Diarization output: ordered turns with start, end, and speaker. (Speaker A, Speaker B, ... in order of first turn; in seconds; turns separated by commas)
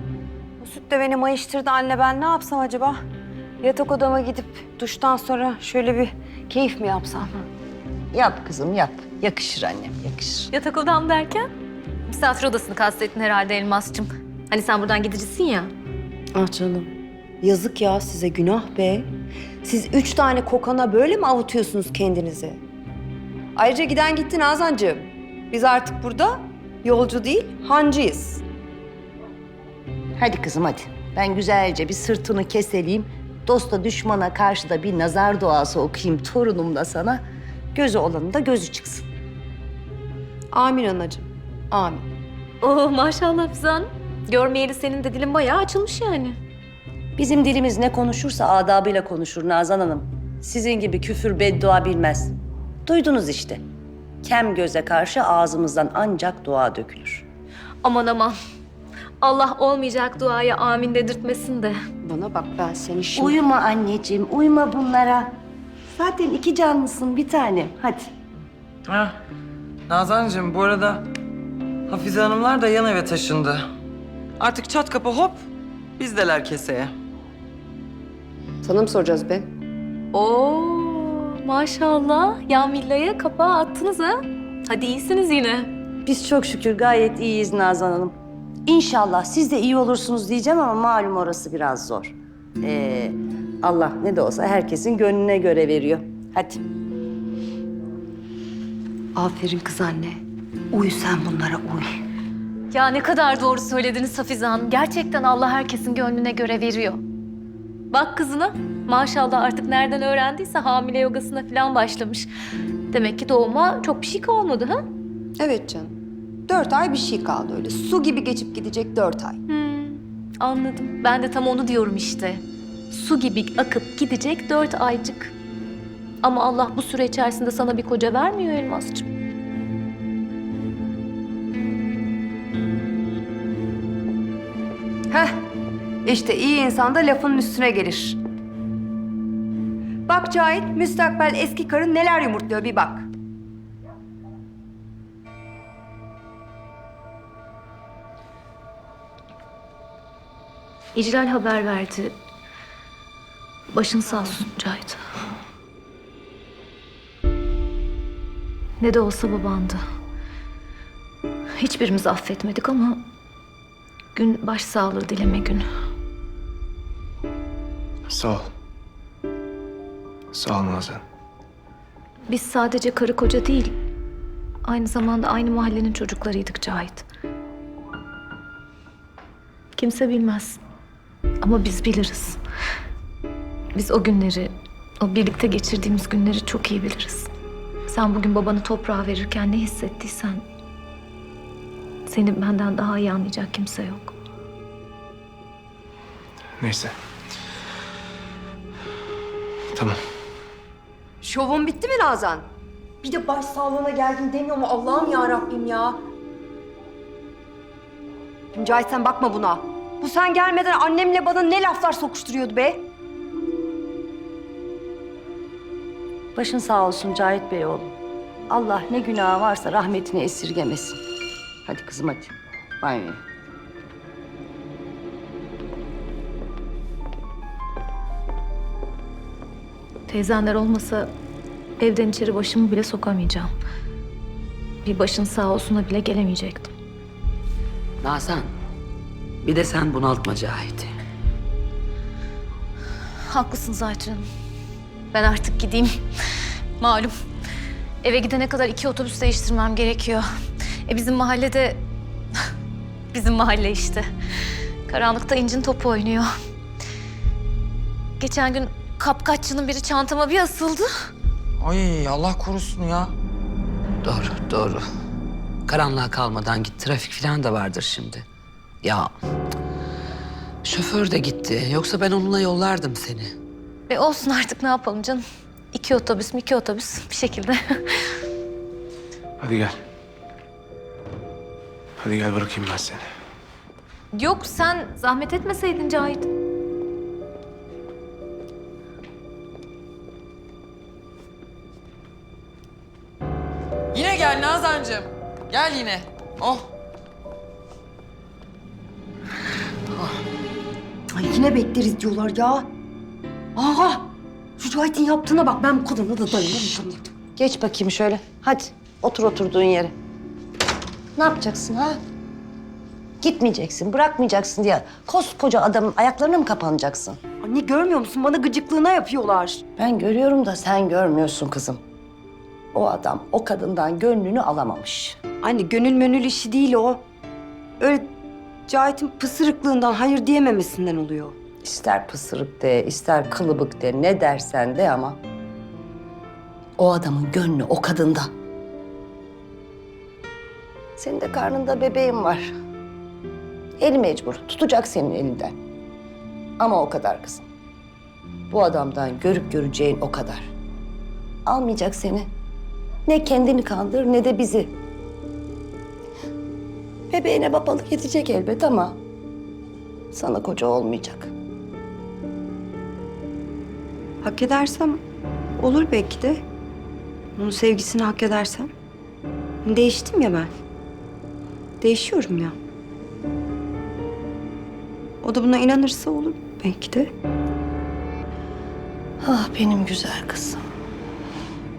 Speaker A: 0.6-3.0, Speaker A: 3.6-7.5, Speaker B: 8.1-10.5, Speaker C: 10.5-11.5, Speaker C: 12.1-15.7, Speaker A: 16.3-19.1, Speaker A: 19.6-22.6, Speaker A: 23.6-28.4, Speaker B: 30.2-37.2, Speaker B: 37.7-39.1, Speaker A: 40.5-42.1, Speaker C: 42.6-46.4, Speaker B: 47.2-52.3, Speaker B: 52.9-53.6, Speaker B: 54.2-57.3, Speaker C: 57.8-58.4, Speaker C: 59.2-61.8, Speaker A: 62.0-63.4, Speaker B: 63.1-65.3, Speaker B: 65.9-68.1, Speaker D: 68.9-69.2, Speaker D: 69.9-71.1, Speaker D: 71.9-73.7, Speaker D: 74.4-75.4, Speaker D: 76.0-76.9, Speaker A: 78.6-79.5, Speaker C: 80.1-85.7, Speaker B: 86.0-88.2, Speaker B: 88.7-96.6, Speaker A: 99.2-101.9, Speaker C: 102.7-107.0, Speaker C: 107.9-112.3, Speaker C: 112.9-114.8, Speaker A: 115.4-116.0, Speaker A: 116.5-119.4, Speaker C: 119.5-125.3, Speaker C: 126.2-129.1, Speaker A: 135.1-135.4, Speaker A: 136.0-138.2, Speaker A: 140.1-143.1, Speaker C: 150.9-152.1, Speaker C: 153.7-155.0, Speaker C: 158.8-159.8, Speaker C: 161.6-163.0, Speaker C: 164.1-165.6, Speaker E: 168.1-168.4, Speaker E: 170.3-171.0, Speaker C: 172.3-173.8, Speaker C: 174.6-177.1, Speaker C: 179.8-180.6, Speaker C: 181.4-182.4, Speaker C: 183.8-187.3, Speaker C: 187.9-190.4, Speaker C: 192.1-194.2, Speaker E: 196.6-196.9, Speaker A: 201.2-202.5, Speaker A: 203.0-206.0, Speaker A: 208.5-212.9, Speaker B: 216.3-217.9, Speaker B: 218.5-221.0, Speaker B: 221.7-223.2, Speaker C: 230.1-231.1, Speaker C: 231.8-233.5, Speaker C: 234.8-236.7, Speaker F: 238.0-238.5, Speaker F: 239.4-240.9, Speaker C: 243.3-244.2, Speaker C: 245.1-246.0, Speaker C: 246.8-247.1, Speaker C: 248.0-250.3, Speaker C: 250.9-251.8, Speaker C: 253.1-254.1, Speaker C: 254.9-256.3, Speaker C: 258.2-260.9, Speaker D: 261.6-263.1, Speaker F: 264.0-264.8, Speaker F: 265.7-268.3, Speaker F: 268.8-269.1, Speaker F: 270.6-273.3, Speaker C: 273.9-278.1, Speaker E: 279.4-279.7, Speaker E: 282.0-283.0, Speaker C: 284.1-286.3, Speaker D: 293.9-296.6, Speaker A: 301.1-302.7, Speaker A: 303.6-307.1, Speaker B: 307.4-309.9, Speaker B: 311.2-312.0, Speaker B: 313.2-317.2, Speaker A: 317.4-319.6, Speaker B: 319.8-321.8, Speaker B: 322.7-325.2, Speaker A: 325.4-327.0, Speaker A: 327.8-328.1, Speaker A: 328.7-331.4, Speaker B: 331.6-335.2, Speaker B: 336.8-338.3, Speaker B: 341.0-342.5, Speaker B: 343.8-345.6, Speaker B: 346.6-347.5, Speaker B: 348.5-350.5, Speaker B: 351.5-352.3, Speaker B: 353.1-354.7, Speaker B: 357.1-359.0, Speaker B: 360.1-361.3, Speaker A: 364.2-365.0, Speaker A: 365.6-366.4, Speaker A: 367.4-368.7, Speaker A: 369.6-370.5, Speaker A: 371.8-372.6, Speaker A: 375.2-377.1, Speaker B: 379.2-380.6